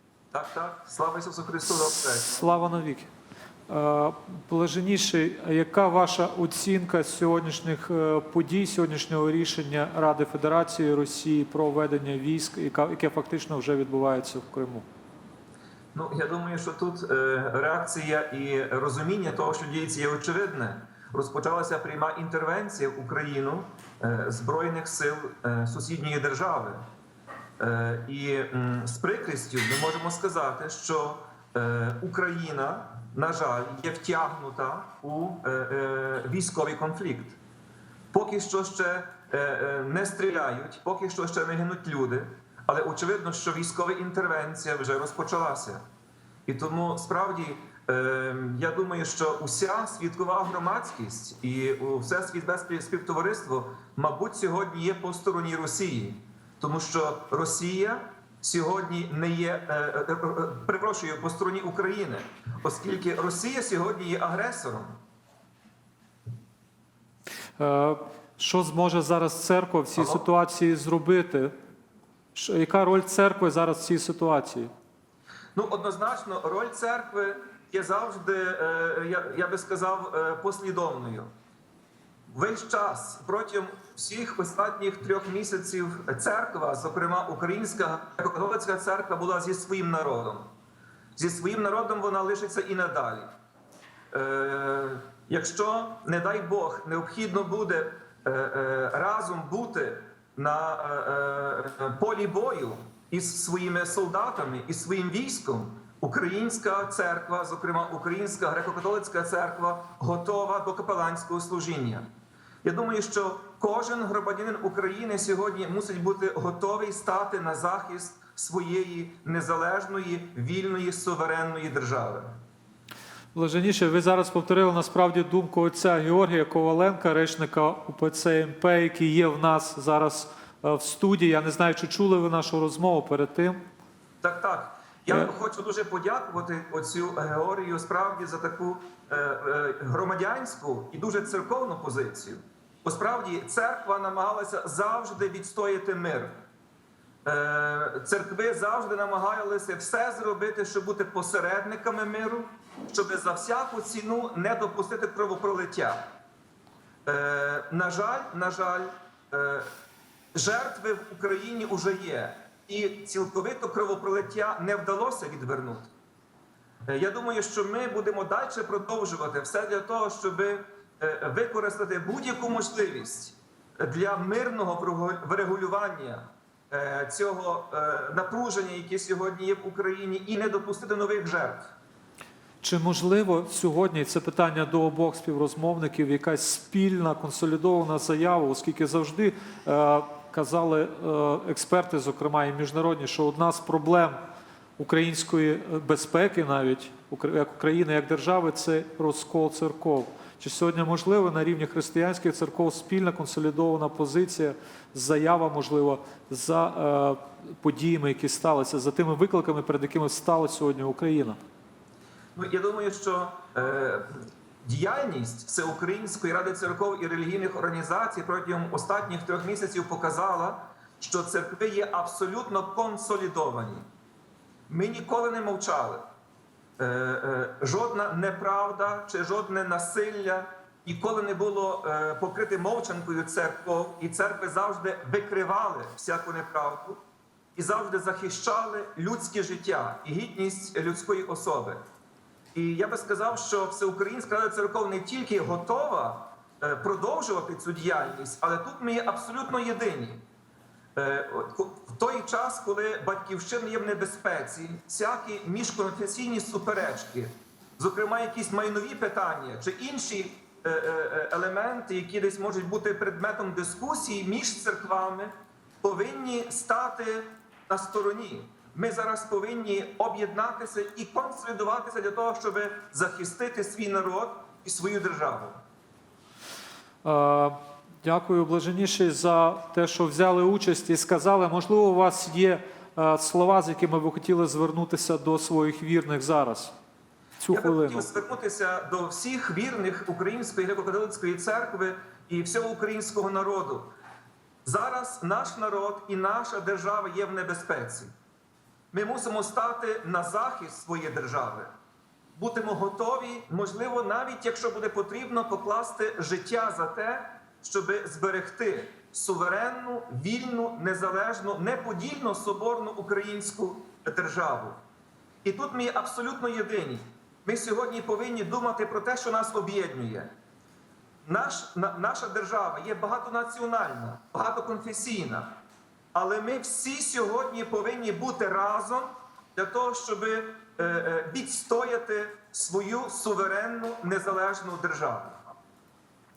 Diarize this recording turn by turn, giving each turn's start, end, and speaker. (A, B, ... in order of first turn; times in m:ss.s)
0:00.3-0:02.4 A
0:02.1-0:03.1 B
0:03.7-0:14.9 B
0:15.9-0:26.8 A
0:27.6-0:37.4 A
0:38.1-0:45.8 A
0:46.5-1:04.9 A
1:07.6-1:11.5 B
1:10.0-1:10.2 A
1:12.3-1:14.7 B
1:15.6-1:21.3 A
1:22.3-1:30.5 A
1:31.2-1:33.3 A
1:34.1-1:52.0 A
1:52.6-2:02.3 A
2:03.3-2:13.6 B
2:14.2-2:26.3 A
2:27.2-2:36.0 A
2:37.0-2:39.7 A
2:40.3-2:45.9 A
2:46.9-3:01.7 A
3:02.6-3:14.2 B
3:14.8-3:31.4 B
3:32.3-3:43.8 A
3:44.7-3:46.0 A
3:46.8-3:57.0 A
3:57.6-4:01.8 A
4:02.5-4:10.2 A
4:11.0-4:35.6 A
4:37.0-4:46.7 B
4:47.4-4:48.1 B
4:47.5-4:53.9 A
4:54.6-4:58.1 A
4:58.9-5:01.7 A
5:02.4-5:14.8 A
5:15.4-5:20.3 A
5:21.2-5:25.4 A
5:26.1-5:35.4 A